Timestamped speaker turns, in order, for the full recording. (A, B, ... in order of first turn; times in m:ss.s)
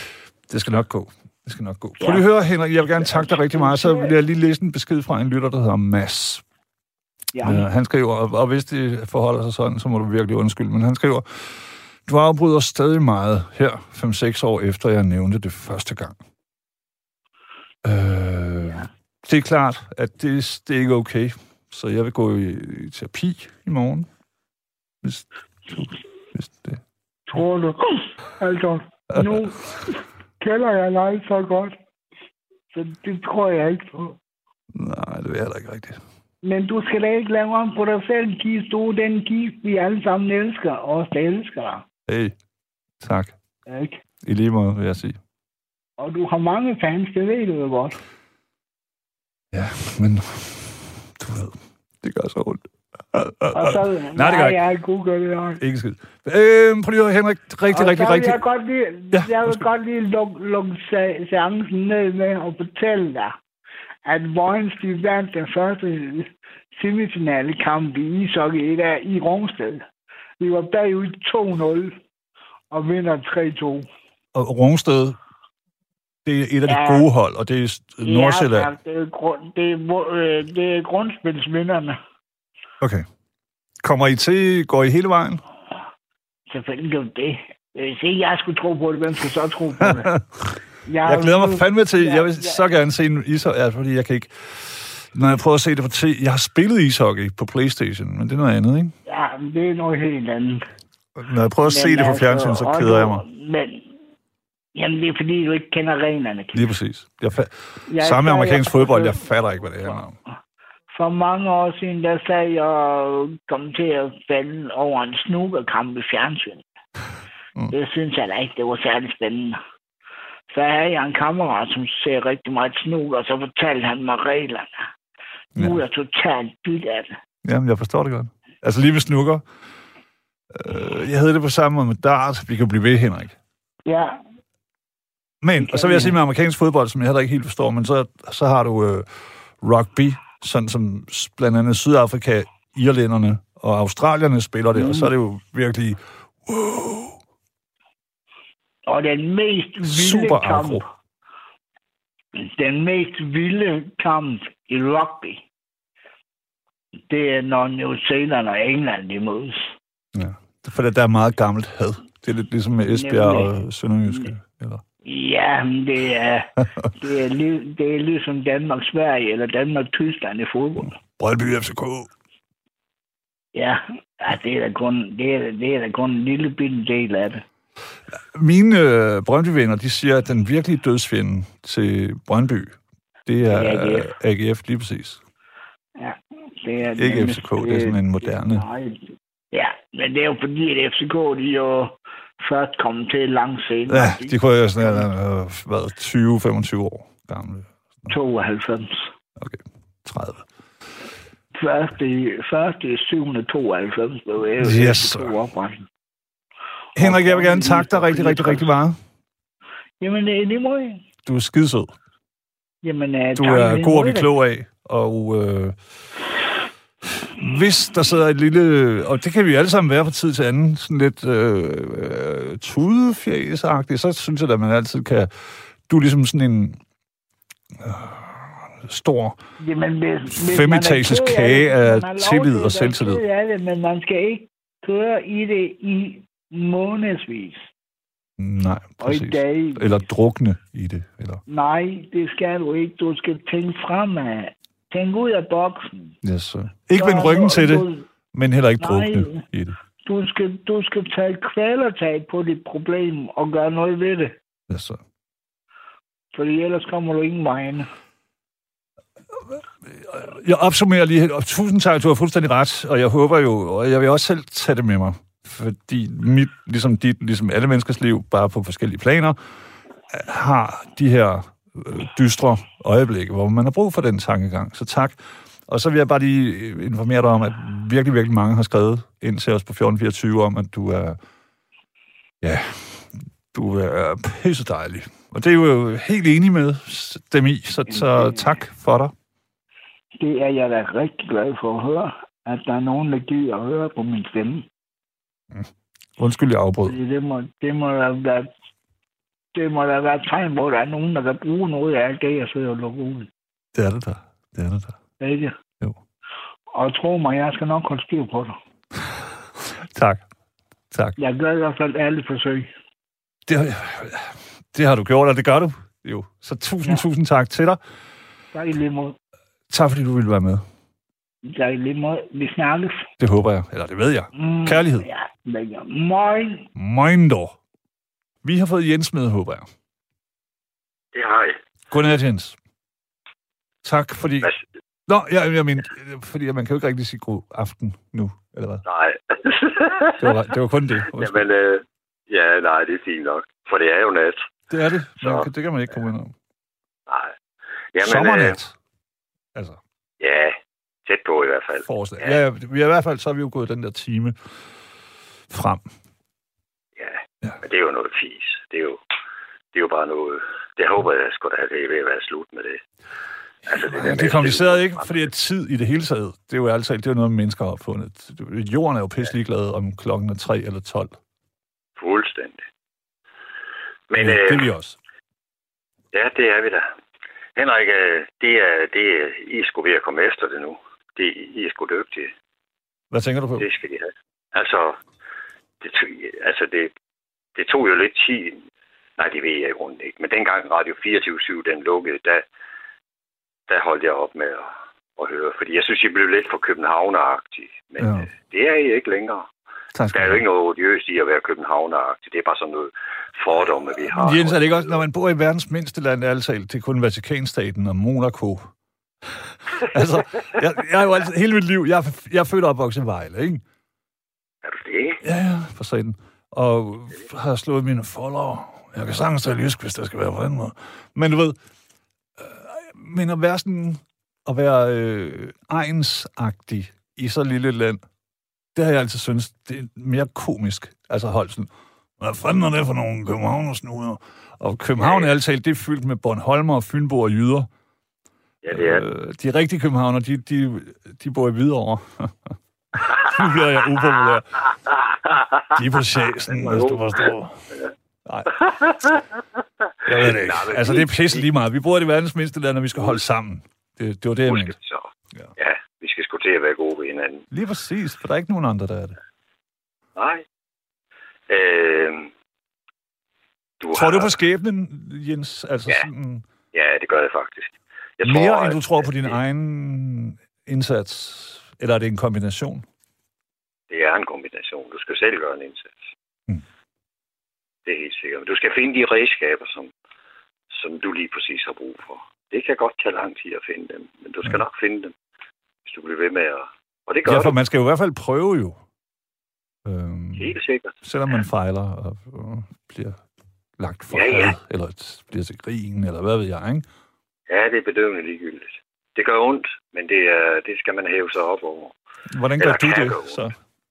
0:00.5-0:06.4 A
0:03.0-0:04.1 B
0:07.3-0:07.6 B
0:07.4-0:16.2 A
0:17.8-0:24.1 A
0:25.0-0:26.8 A
0:27.3-0:31.8 B
0:29.1-0:29.4 A
0:32.7-0:34.2 B
0:34.7-0:36.0 A
0:36.4-0:41.8 B
0:42.1-0:42.4 A
0:43.0-0:43.3 A
0:43.7-0:44.0 B
0:44.2-0:45.2 A
0:46.0-0:48.0 B
0:49.5-0:54.6 A
0:53.5-0:55.6 B
0:55.6-0:58.4 A
0:57.7-1:03.4 B
0:59.1-0:59.6 A
1:04.1-1:09.9 B
1:10.4-1:12.0 B
1:12.7-1:13.9 B
1:14.4-1:15.2 A
1:16.2-1:18.7 A
1:16.7-1:17.1 B
1:18.0-1:22.0 B
1:23.8-1:25.4 A
1:26.5-1:30.1 B
1:29.8-1:38.9 A
1:30.9-1:32.7 B
1:39.1-1:40.6 B
1:41.2-1:43.2 A
1:41.6-1:43.9 B
1:44.7-1:46.7 B
1:46.5-1:50.2 A
1:47.9-1:49.2 B
1:50.9-1:56.6 B
1:57.7-1:59.6 B
2:00.5-2:04.9 B
2:05.6-2:05.8 A
2:05.6-2:07.2 B
2:07.4-2:09.4 A
2:10.5-2:13.4 A
2:13.9-2:14.2 B
2:15.4-2:19.1 A
2:15.6-2:16.2 B
2:19.6-2:27.2 A
2:24.7-2:25.1 B
2:28.9-2:30.9 B
2:29.8-2:30.8 A
2:32.4-2:35.5 B
2:37.1-2:39.7 B
2:40.2-2:44.8 A
2:42.9-2:43.5 B
2:45.0-2:51.0 B
2:51.0-2:52.1 A
2:53.5-2:57.4 B
2:58.1-3:05.2 A
3:03.5-3:04.1 B
3:06.0-3:15.1 B
3:07.0-3:08.7 A
3:13.9-3:18.1 A
3:18.1-3:19.1 B
3:19.4-3:20.5 A
3:21.5-3:25.9 B
3:24.6-3:25.4 A
3:27.0-3:29.0 A
3:27.0-3:28.7 B
3:30.0-3:31.0 B
3:31.3-3:32.0 A
3:32.8-3:34.3 B
3:33.4-3:35.8 A
3:37.1-3:45.3 A
3:45.9-3:46.8 A
3:47.8-3:49.4 A
3:49.6-3:57.7 B
3:50.3-3:53.2 A
3:58.4-4:01.4 A
3:59.0-3:59.9 B
4:01.5-4:06.1 B
4:06.2-4:09.8 A
4:07.0-4:08.1 B
4:08.8-4:09.4 B
4:10.0-4:14.4 B
4:14.7-4:15.0 A
4:16.4-4:17.9 B
4:19.3-4:29.4 A
4:30.1-4:41.2 A
4:42.4-4:49.1 A
4:47.9-4:48.6 B
4:50.2-4:54.7 B
4:55.5-4:57.0 A
4:56.9-4:58.5 B
4:59.5-5:03.3 B
5:03.7-5:04.9 A
5:05.2-5:05.5 B
5:06.7-5:08.6 B
5:09.6-5:10.3 A
5:10.9-5:11.2 A
5:11.2-5:12.7 B
5:13.5-5:17.8 A
5:18.5-5:19.2 B
5:19.7-5:20.6 A
5:21.4-5:23.1 B
5:23.2-5:25.1 A
5:24.3-5:26.7 B
5:26.8-5:27.6 A
5:28.4-5:29.7 A
5:31.1-5:31.6 C
5:31.9-5:32.6 A
5:33.8-5:34.5 A
5:35.1-5:38.8 A
5:38.8-5:40.4 C
5:40.2-5:41.5 A
5:41.1-5:44.5 C
5:44.7-5:46.3 A
5:45.2-5:45.5 C
5:47.1-5:47.3 C
5:47.9-5:48.6 C
5:48.0-5:48.8 A
5:49.6-5:49.8 A
5:50.2-5:52.4 C
5:51.9-5:54.5 A
5:55.5-5:55.8 A
5:57.0-5:59.0 C
5:59.7-6:02.8 C
6:03.6-6:05.2 C
6:03.7-6:11.2 A
6:12.0-6:12.6 C
6:14.1-6:14.6 C
6:14.2-6:15.0 A
6:16.1-6:16.8 C
6:17.6-6:22.3 C
6:23.1-6:23.7 A
6:23.6-6:25.0 C
6:25.8-6:26.9 C
6:27.6-6:32.4 C
6:33.7-6:39.5 C
6:38.0-6:38.3 A
6:40.0-6:40.4 A
6:40.1-6:45.0 C
6:44.1-6:48.7 A
6:49.8-6:53.6 A
6:54.6-6:55.2 C
6:55.2-7:01.6 A
7:02.4-7:08.0 A
7:08.8-7:17.7 A
7:15.0-7:15.3 C
7:18.6-7:19.0 C
7:18.7-7:24.6 A
7:25.3-7:25.6 C
7:25.7-7:27.6 A
7:26.5-7:27.3 C
7:28.2-7:28.6 A
7:28.5-7:31.4 C
7:30.0-7:34.7 A
7:34.5-7:37.5 C
7:37.5-7:39.2 A
7:40.2-7:40.4 C
7:41.5-7:42.3 C
7:43.8-7:44.3 C
7:43.9-7:46.5 A
7:46.7-7:49.4 C
7:48.2-7:52.8 A
7:53.9-7:56.1 C
7:57.8-7:59.9 C
8:00.7-8:05.2 C
8:05.9-8:07.6 C
8:07.3-8:08.8 A
8:09.8-8:13.2 A
8:10.4-8:11.0 C
8:13.8-8:16.9 A
8:14.1-8:14.6 C
8:17.5-8:21.9 C
8:22.3-8:23.6 A
8:22.6-8:23.4 C